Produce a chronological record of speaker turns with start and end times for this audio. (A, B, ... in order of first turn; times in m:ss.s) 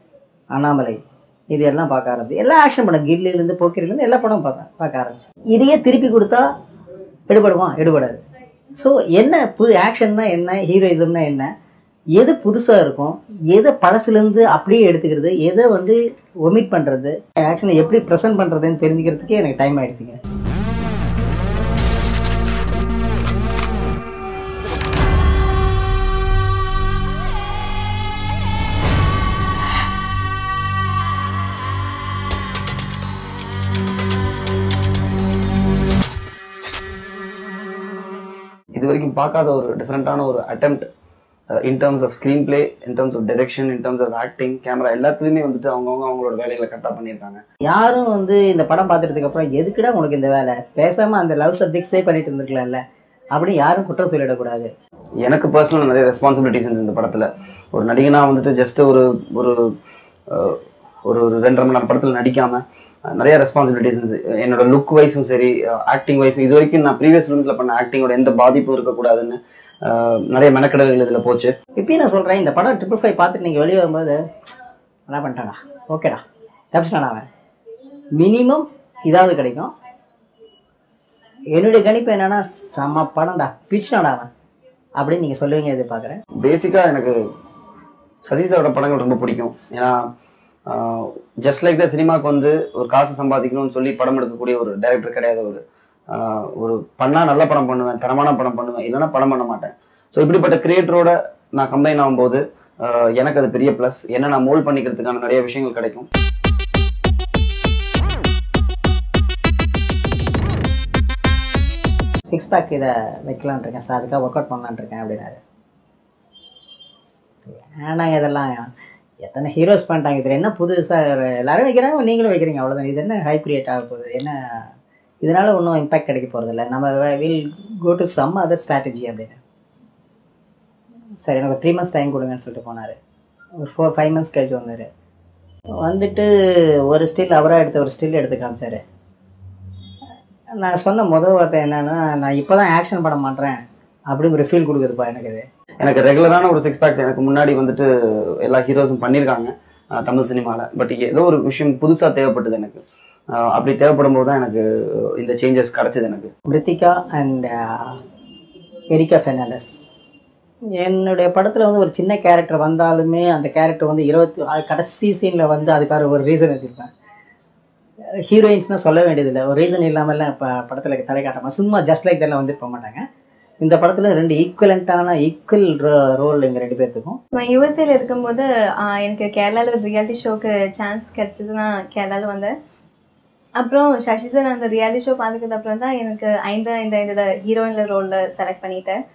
0:00.5-0:01.0 A
0:01.5-0:06.4 A
0:07.3-0:08.2 A
0:08.7-0:11.5 A
0:12.2-0:20.2 A
0:38.7-0:40.8 B
0:41.6-0:47.4 B
0:47.7-0:52.8 A
0:53.3-0:54.7 A
0:55.2-0:59.6 B
1:00.3-1:11.5 B
1:11.8-1:14.2 A
1:15.1-1:17.2 A
1:18.2-1:19.7 A
1:21.5-1:24.3 A
1:25.0-1:26.2 A
1:26.4-1:27.2 B
1:28.2-1:30.0 B
1:30.7-1:35.6 B
1:36.1-1:46.1 B
1:52.3-1:55.4 A
1:57.5-1:58.7 A
1:59.2-2:04.6 A
2:05.2-2:09.4 A
2:11.2-2:13.0 A
2:13.6-2:14.9 A
2:15.8-2:16.3 A
2:16.9-2:18.8 A
2:20.6-2:23.6 A
2:24.1-2:25.4 A
2:25.8-2:27.9 B
2:28.4-2:32.8 B
2:33.3-2:36.3 B
2:36.5-2:38.0 A
2:38.9-2:39.8 A
2:40.8-2:46.9 A
2:48.3-2:53.0 A
2:53.6-2:57.2 A
2:57.4-3:02.5 C
3:03.6-3:09.0 C